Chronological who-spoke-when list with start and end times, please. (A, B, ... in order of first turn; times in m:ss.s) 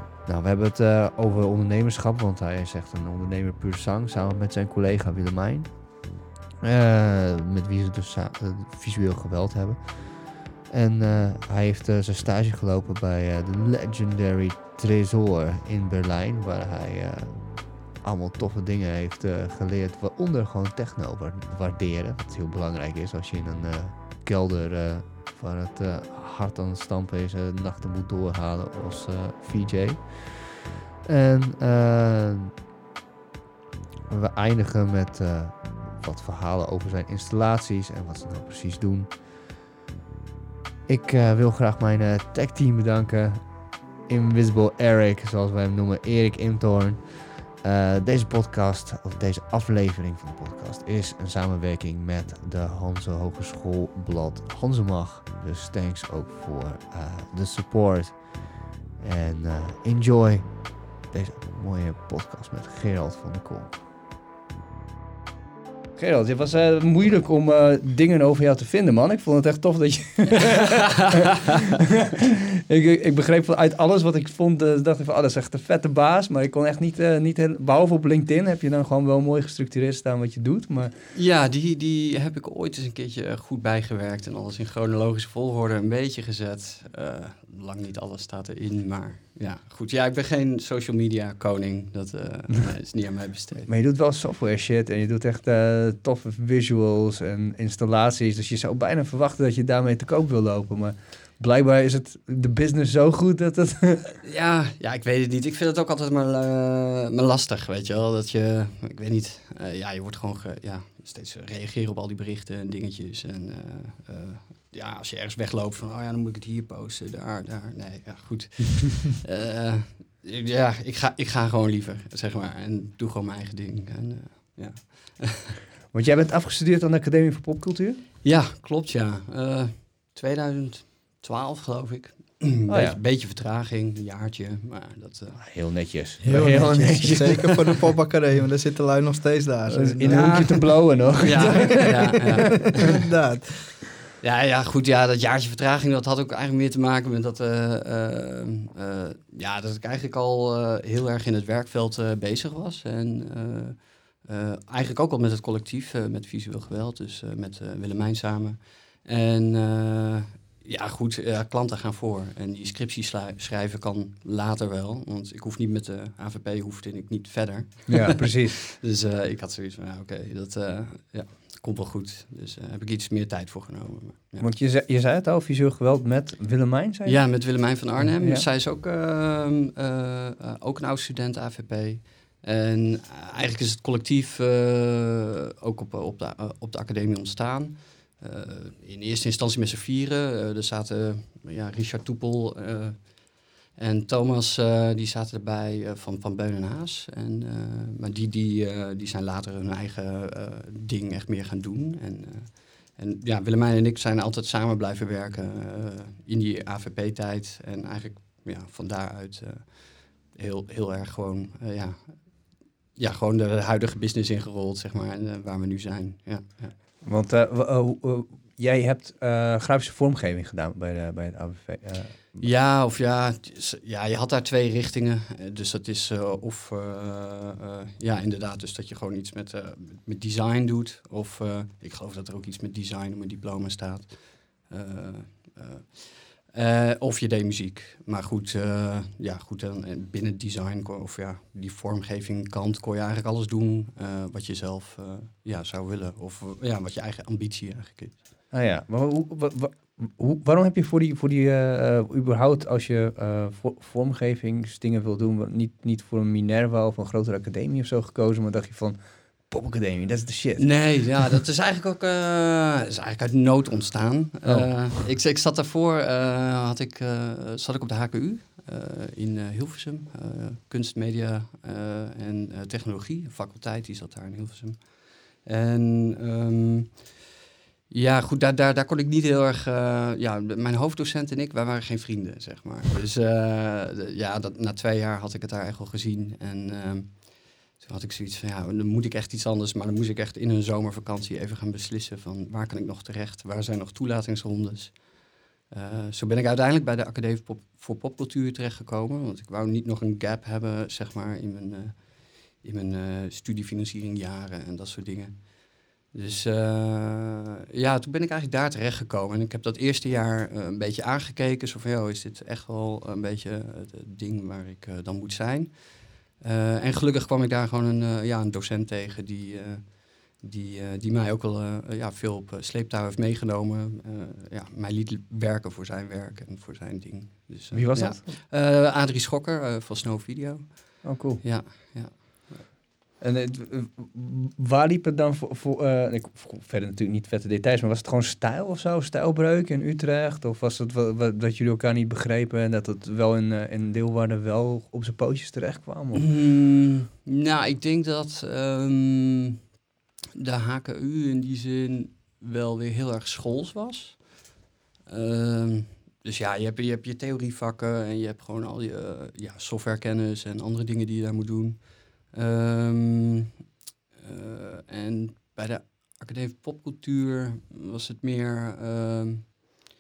0:00.2-0:06.0 A
0:06.6-0:32.5 A
0:34.1-0:39.2 A
0:40.9-1:03.8 A
1:06.0-1:11.2 A
1:12.7-1:21.0 A
1:21.1-1:33.7 B
1:33.7-1:44.1 A
1:44.2-2:05.6 B
2:05.9-2:08.0 A
2:08.2-2:17.5 B
2:12.7-2:13.0 A
2:15.4-2:17.7 A
2:16.2-2:20.8 C
2:19.7-2:22.6 A
2:20.0-2:23.0 B
2:22.8-2:23.8 C
2:24.2-2:54.5 B
2:47.9-2:48.6 A
2:54.4-2:58.5 A
2:57.0-3:36.8 B
3:37.0-3:42.5 A
3:42.4-4:08.2 B
4:08.5-4:21.2 A
4:20.6-4:37.2 B
4:24.4-4:24.8 A
4:37.9-5:32.7 B
5:27.7-5:28.3 A
5:31.0-5:31.4 A
5:33.2-5:46.3 A
5:46.2-5:49.6 B
5:50.4-5:54.4 B
5:55.1-6:03.5 B
6:04.2-6:09.8 B